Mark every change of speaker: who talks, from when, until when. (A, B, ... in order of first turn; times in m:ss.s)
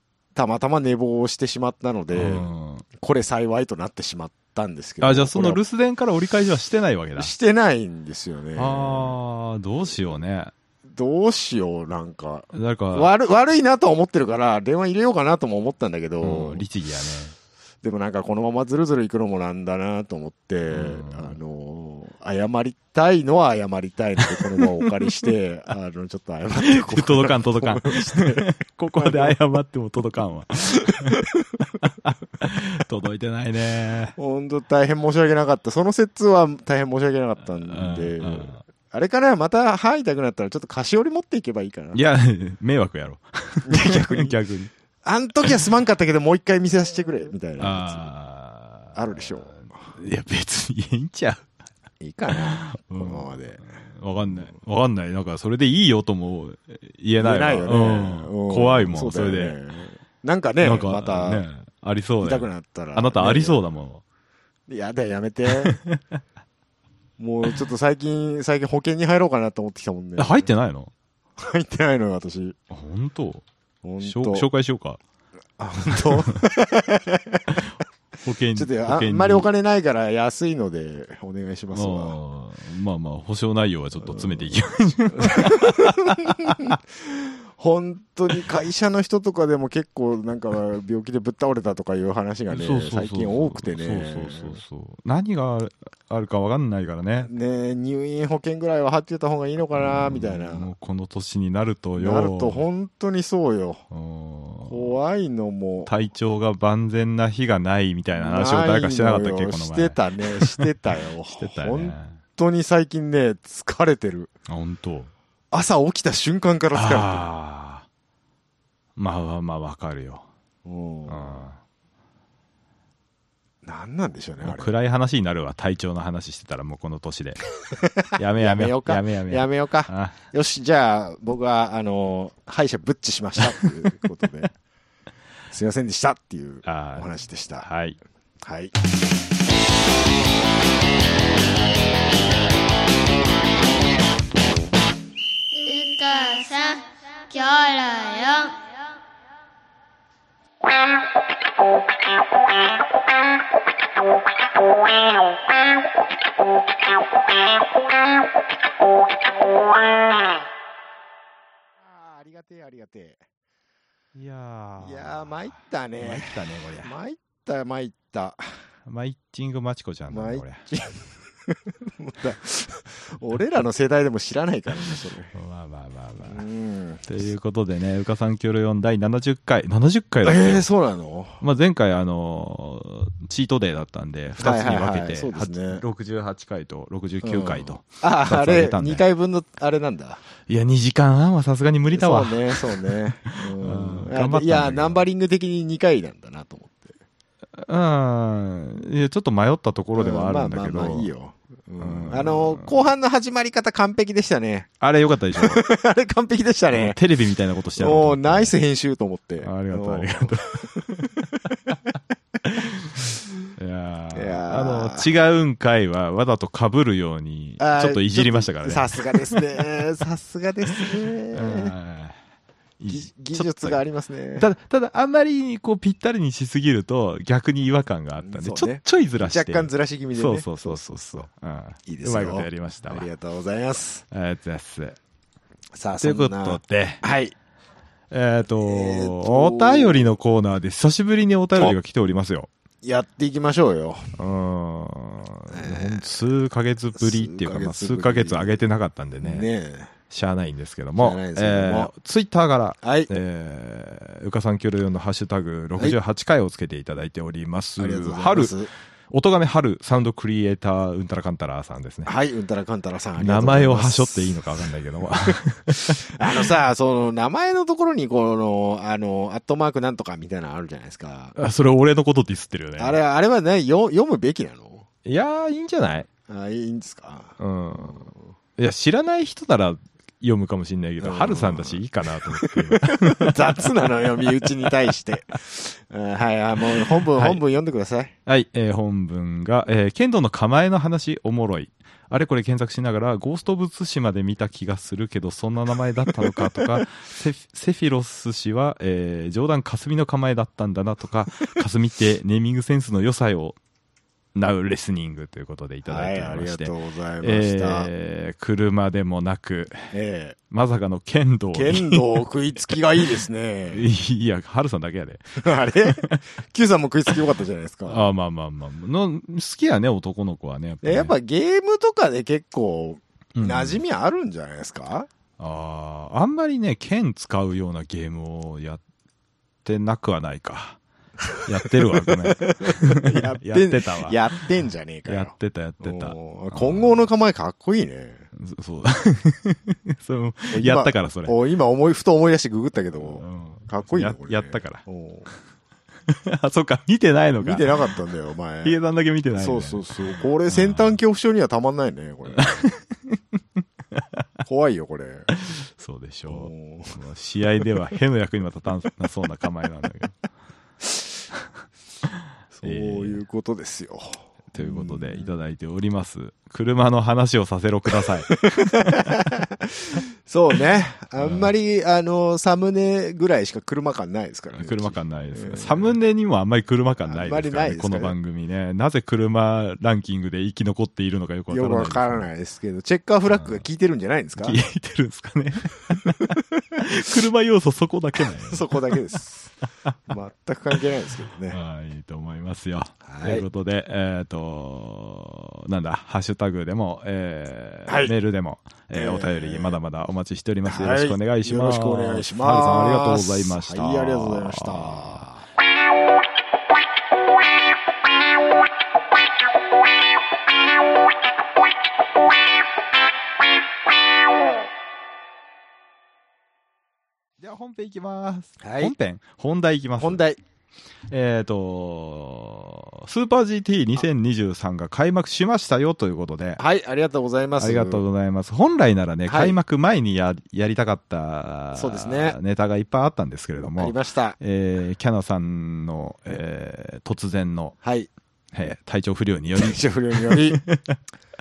0:00.3-0:05.6 A
0:02.1-0:02.8 B
0:05.0-0:07.3 B
0:07.2-0:09.2 A
0:08.5-0:10.5 B
0:10.9-0:16.6 A
0:12.5-0:13.1 B
0:16.2-0:17.3 B
0:17.8-0:29.4 A
0:20.7-0:21.4 B
0:24.3-0:25.3 B
0:26.6-0:34.1 B
0:30.8-0:31.5 A
0:34.2-0:42.0 A
0:37.7-0:38.6 B
0:41.9-0:44.7 B
0:43.7-0:44.3 A
0:45.0-0:48.1 A
0:47.6-0:49.3 B
0:48.9-0:49.6 A
0:49.9-0:51.4 B
0:52.0-0:53.6 A
0:52.3-0:59.6 B
0:57.2-1:01.4 A
1:00.6-1:04.0 B
1:02.2-1:03.6 A
1:04.7-1:05.8 A
1:05.5-1:06.0 B
1:07.2-1:10.5 A
1:10.2-1:10.9 B
1:11.4-1:12.6 A
1:12.7-1:13.4 B
1:13.8-1:14.5 A
1:14.0-1:15.0 B
1:15.6-1:17.6 A
1:15.9-1:16.4 B
1:18.2-1:19.5 B
1:18.5-1:22.2 A
1:21.7-1:26.8 B
1:25.1-1:34.6 A
1:32.5-1:37.3 B
1:37.2-1:40.7 A
1:39.7-1:42.6 B
1:42.0-1:43.8 A
1:43.9-1:45.0 B
1:44.6-1:45.9 A
1:45.8-1:50.7 B
1:48.2-1:54.3 A
1:51.4-1:52.2 B
1:54.5-1:55.1 B
1:55.5-1:57.3 A
1:56.7-1:57.8 B
1:59.0-2:00.2 B
2:00.6-2:01.5 A
2:01.1-2:01.6 B
2:03.6-2:04.7 A
2:04.4-2:07.4 B
2:07.8-2:14.5 A
2:08.2-2:10.2 B
2:15.5-2:17.7 A
2:16.6-2:17.1 B
2:17.6-2:18.0 B
2:18.4-2:18.7 A
2:25.5-2:28.8 C
2:41.8-2:43.2 A
2:44.1-2:45.5 B
2:44.8-2:48.4 A
2:46.0-2:46.9 B
2:48.8-2:50.6 B
2:50.1-2:55.3 A
2:55.3-2:56.4 B
2:56.2-2:57.2 A
2:57.0-3:00.7 B
3:00.2-3:01.4 A
3:01.4-3:09.0 B
3:04.4-3:05.8 A
3:07.2-3:10.2 A
3:10.5-3:15.0 B
3:11.9-3:16.9 A
3:17.6-3:21.1 B
3:19.9-3:24.7 A
3:21.8-3:22.8 B
3:24.8-3:25.6 B
3:25.3-3:27.0 A
3:26.7-3:28.5 B
3:27.8-3:31.8 A
3:29.4-3:31.8 B
3:32.5-3:39.6 B
3:34.1-3:35.1 A
3:37.6-3:41.7 A
3:40.9-3:42.2 B
3:42.8-3:43.8 B
3:42.9-3:44.5 A
3:44.4-3:53.1 B
3:48.2-3:51.3 A
3:51.8-3:54.0 A
3:54.1-3:55.0 B
3:55.7-3:57.3 A
3:56.0-3:57.0 B
3:58.1-4:02.5 B
3:58.6-4:00.1 A
4:02.8-4:04.1 A
4:04.2-4:09.5 B
4:05.5-4:06.1 A
4:07.0-4:08.6 A
4:09.2-4:09.9 A
4:10.1-4:18.5 B
4:11.0-4:11.9 A
4:12.8-4:13.1 A
4:17.8-4:18.7 A
4:19.1-4:22.1 B
4:22.0-4:31.4 A
4:23.2-4:26.4 B
4:31.4-4:33.0 B
4:32.8-4:34.8 A
4:35.0-4:36.1 B
4:36.3-4:38.3 A
4:37.4-4:43.6 B
4:41.0-4:48.1 A
4:47.1-4:47.4 B
4:48.2-5:03.6 B
5:04.3-5:09.9 B
5:05.8-5:07.9 A
5:09.9-5:10.4 A
5:10.5-5:12.0 B
5:11.5-5:13.9 A
5:13.7-5:16.2 B
5:15.4-5:18.1 A
5:17.9-5:21.1 B
5:20.8-5:25.1 A
5:23.4-5:23.8 B
5:25.4-5:28.8 B
5:29.6-5:30.8 B
5:31.4-5:34.2 B
5:31.9-5:38.3 A
5:35.1-5:37.0 B
5:38.3-5:41.3 B
5:40.5-5:45.3 A
5:43.0-5:44.8 B
5:46.1-5:47.7 B
5:47.4-5:48.8 A
5:48.6-5:49.9 B
5:49.3-5:52.7 A
5:50.5-5:51.0 B
5:52.3-5:53.2 B
5:53.9-5:54.2 B
5:54.4-5:55.3 A
5:55.3-6:00.1 B
5:56.3-5:57.0 A
6:02.5-6:05.3 A
6:02.6-6:03.2 B
6:04.5-6:09.1 B
6:08.4-6:15.9 A
6:11.2-6:11.5 B
6:14.5-6:22.3 B
6:17.0-6:18.1 A
6:21.5-6:24.6 A
6:23.3-6:23.6 B
6:24.4-6:29.0 B
6:28.3-6:29.5 A
6:30.1-6:31.6 A
6:31.5-6:45.2 B
6:33.0-6:33.4 A
6:37.9-6:38.1 A
6:38.9-6:39.8 A
6:40.6-6:45.4 A
6:57.4-7:00.2 B
6:58.6-6:58.9 A
7:00.0-7:00.4 A
7:01.1-7:06.6 B
7:06.6-7:08.0 A
7:07.6-7:17.8 B
7:09.3-7:09.6 A
7:11.7-7:12.4 A
7:13.6-7:14.4 A
7:17.8-7:18.1 A
7:18.5-7:21.0 B
7:19.6-7:20.6 A